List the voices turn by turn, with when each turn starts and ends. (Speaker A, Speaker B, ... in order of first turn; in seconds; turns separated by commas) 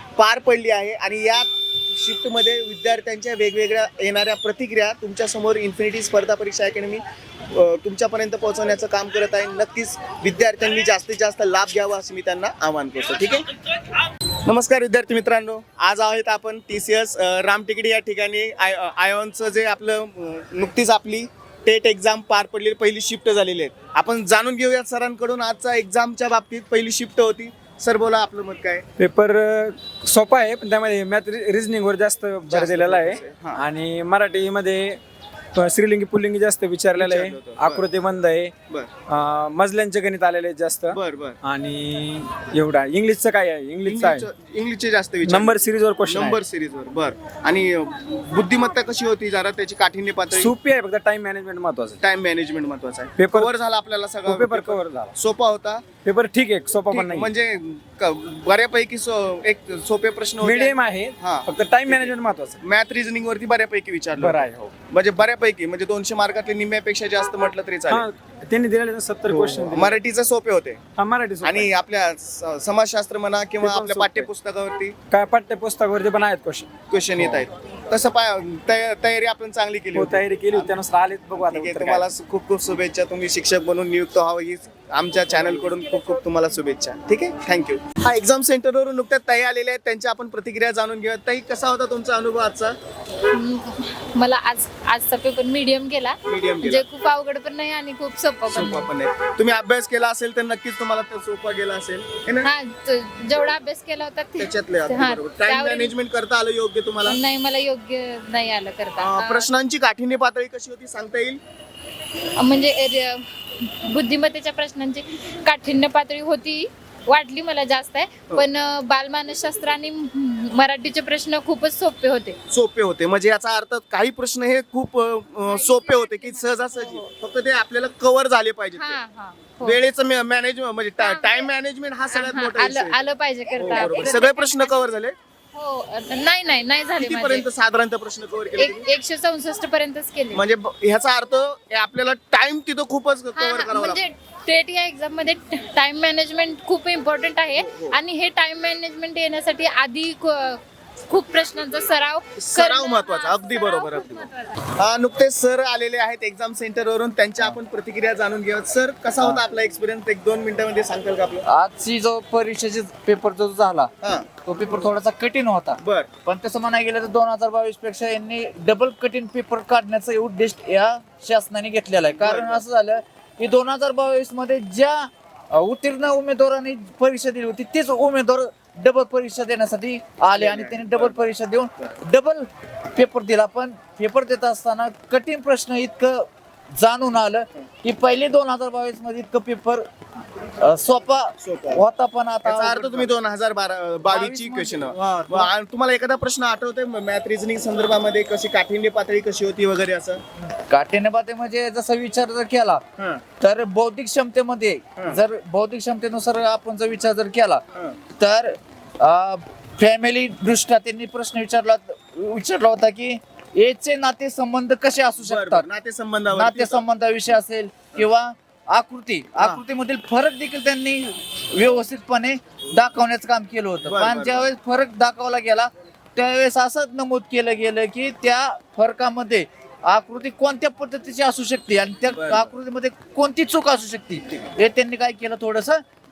Speaker A: 0.2-13.5, Speaker A: 14.5-28.8, Speaker B: 29.0-35.0, Speaker A: 32.5-33.6, Speaker B: 35.5-38.5, Speaker A: 36.9-37.8, Speaker B: 39.1-44.3, Speaker A: 40.9-41.4, Speaker A: 43.8-50.5, Speaker B: 45.2-46.4, Speaker B: 50.3-52.0, Speaker A: 52.0-55.8, Speaker B: 53.2-53.5, Speaker B: 54.2-55.1, Speaker B: 56.0-57.3, Speaker A: 56.9-68.1, Speaker B: 60.4-62.6, Speaker B: 64.2-64.8, Speaker B: 67.9-70.0, Speaker A: 69.3-70.8, Speaker B: 71.0-71.7, Speaker A: 71.4-75.0, Speaker B: 73.6-74.3, Speaker B: 75.1-77.4, Speaker A: 76.9-80.8, Speaker B: 79.9-82.1, Speaker A: 81.4-92.8, Speaker C: 93.3-98.9, Speaker A: 96.2-96.8, Speaker A: 98.5-102.5, Speaker C: 102.4-105.9, Speaker A: 104.4-107.2, Speaker C: 107.0-109.5, Speaker A: 109.0-111.4, Speaker C: 112.4-122.4, Speaker A: 122.5-129.0, Speaker C: 125.5-127.1, Speaker C: 128.8-129.8, Speaker A: 129.6-133.0, Speaker C: 131.0-131.5, Speaker C: 132.1-134.8, Speaker A: 133.6-135.2, Speaker C: 135.5-137.5, Speaker A: 137.0-138.8, Speaker C: 138.6-140.4, Speaker A: 140.3-144.0, Speaker C: 143.3-154.5, Speaker A: 147.5-148.0, Speaker A: 152.4-161.4, Speaker D: 161.5-189.8, Speaker A: 164.0-164.3, Speaker A: 165.8-166.1, Speaker A: 172.1-172.6, Speaker A: 180.3-181.2, Speaker D: 190.6-193.1, Speaker A: 191.4-191.8, Speaker A: 192.4-200.2, Speaker D: 194.1-195.5, Speaker D: 200.6-202.8, Speaker D: 203.4-207.6, Speaker D: 208.2-215.7, Speaker A: 215.2-216.8, Speaker D: 216.3-235.8, Speaker A: 219.4-219.6, Speaker A: 223.8-224.4, Speaker A: 232.1-232.5